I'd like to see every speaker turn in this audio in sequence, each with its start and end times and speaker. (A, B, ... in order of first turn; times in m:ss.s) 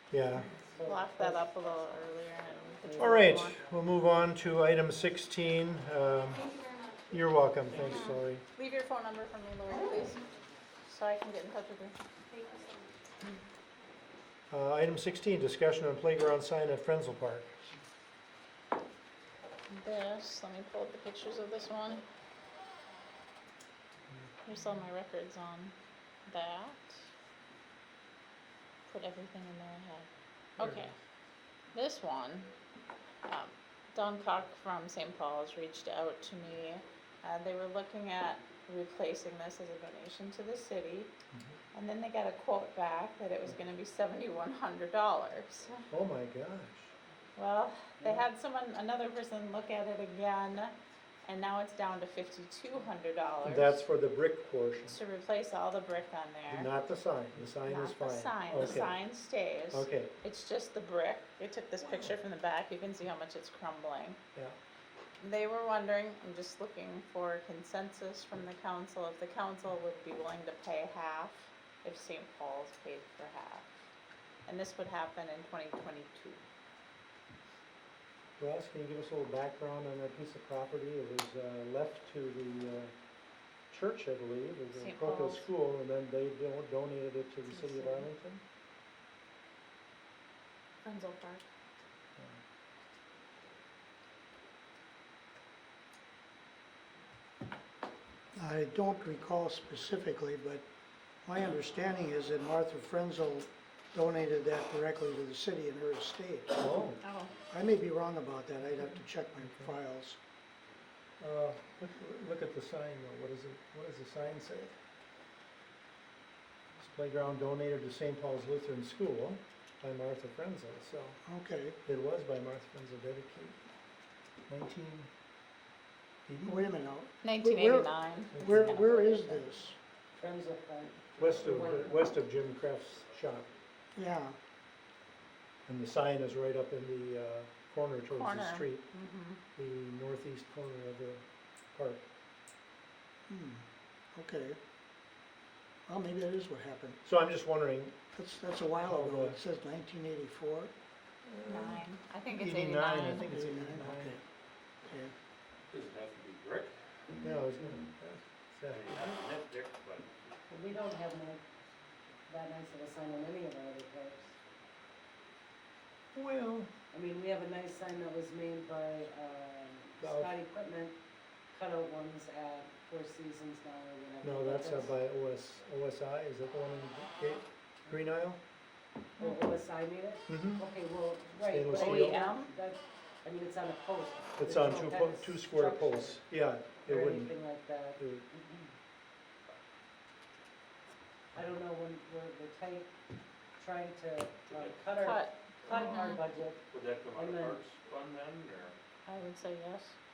0:00.1-0:00.5 A
0:00.7-0:01.5 B
0:00.8-0:03.6 C
0:02.8-0:03.1 B
0:03.0-0:06.5 A
0:07.1-0:08.4 A
0:07.8-0:10.2 C
0:10.9-0:12.0 C
0:14.5-0:17.6 A
0:19.7-0:22.0 C
0:24.4-0:25.8 C
0:26.3-0:27.1 C
0:28.9-0:31.0 C
0:30.6-0:30.9 A
0:31.7-0:32.5 C
0:33.2-0:41.1 C
0:41.3-0:41.6 A
0:41.7-0:45.9 C
0:45.9-0:46.9 A
0:47.4-0:53.8 C
0:48.0-0:48.2 B
0:53.4-0:55.0 A
0:54.8-0:56.7 C
0:56.5-0:59.0 A
0:57.6-1:04.2 C
0:59.7-1:00.1 A
1:05.2-1:13.8 C
1:14.4-1:16.4 C
1:18.4-1:22.9 A
1:23.7-1:28.4 A
1:24.7-1:25.5 C
1:27.4-1:28.1 C
1:30.8-1:31.4 C
1:38.3-1:40.6 D
1:41.2-1:46.6 D
1:46.6-1:47.0 A
1:47.0-1:47.3 C
1:47.5-1:50.2 D
1:48.8-1:49.7 A
1:51.2-1:54.8 A
1:56.8-2:01.2 A
2:01.2-2:01.8 D
2:01.8-2:03.6 A
2:04.5-2:05.1 A
2:06.3-2:06.7 A
2:06.4-2:09.8 D
2:07.2-2:08.5 C
2:08.3-2:08.8 A
2:08.4-2:09.5 B
2:10.2-2:12.1 B
2:11.2-2:13.5 A
2:14.0-2:14.4 D
2:15.7-2:18.9 A
2:18.1-2:19.4 C
2:19.6-2:22.0 A
2:23.3-2:24.6 D
2:25.9-2:27.0 D
2:27.0-2:28.0 A
2:28.1-2:30.7 D
2:28.8-2:29.4 A
2:31.2-2:34.2 A
2:31.5-2:33.3 C
2:33.2-2:34.2 D
2:34.8-2:35.1 D
2:35.7-2:36.7 E
2:37.2-2:39.2 A
2:38.7-2:40.2 E
2:40.5-2:41.4 B
2:42.3-2:44.4 B
2:46.1-2:46.7 A
2:46.9-2:51.0 B
2:50.0-2:50.3 A
2:51.5-2:55.0 B
2:54.2-2:58.4 A
2:59.2-3:06.2 B
3:00.3-3:00.6 A
3:01.4-3:02.3 A
3:01.7-3:02.5 C
3:04.4-3:07.4 A
3:06.8-3:08.7 B
3:08.0-3:08.2 A
3:11.3-3:12.9 B
3:13.6-3:17.6 B
3:14.5-3:14.8 E
3:15.0-3:16.2 C
3:15.6-3:16.1 E
3:16.7-3:18.8 E
3:19.1-3:20.0 C